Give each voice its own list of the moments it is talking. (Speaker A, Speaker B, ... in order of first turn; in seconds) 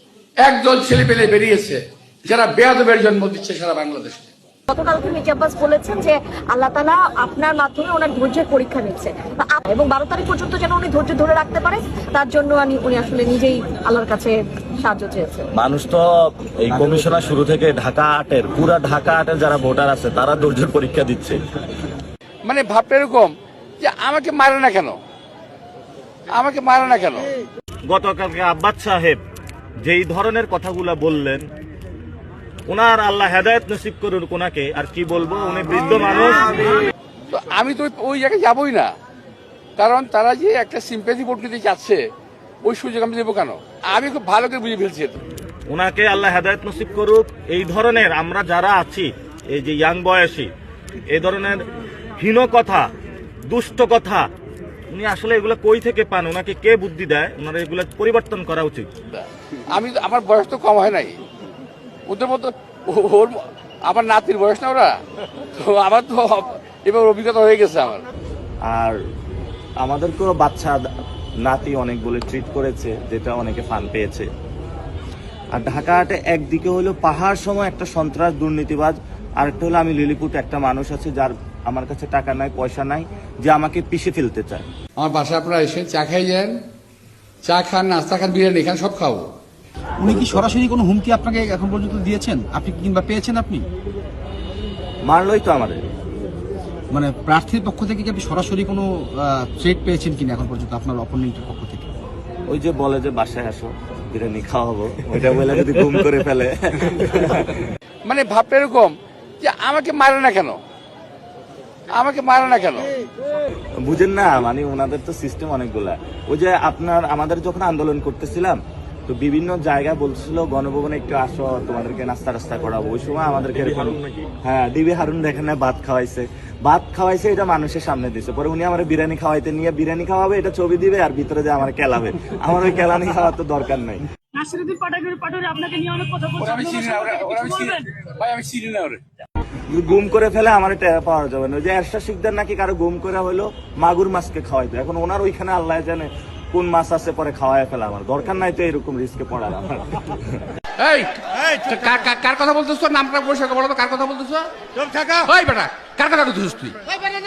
Speaker A: 0.4-4.3, 22.4-25.0, 26.3-27.3, 37.3-38.9, 39.8-42.0, 42.6-45.2, 59.1-61.2, 62.1-68.1, 85.0-86.5, 87.4-89.3, 108.1-110.6, 111.9-112.9, 136.4-139.0, 150.8-156.8
Speaker B: 4.7-15.5
Speaker C: 15.5-21.4, 27.9-29.2, 29.8-31.4, 32.7-36.8, 45.7-50.5, 51.1-51.6, 52.2-52.9, 53.5-54.3, 54.9-58.9, 68.7-69.0, 69.8-70.8, 71.4-74.3, 75.5-84.6, 90.0-90.5, 95.1-95.8, 102.5-107.5, 113.8-134.0, 139.7-150.4
Speaker D: 90.0-93.7, 96.9-101.9
Speaker E: 134.3-137.8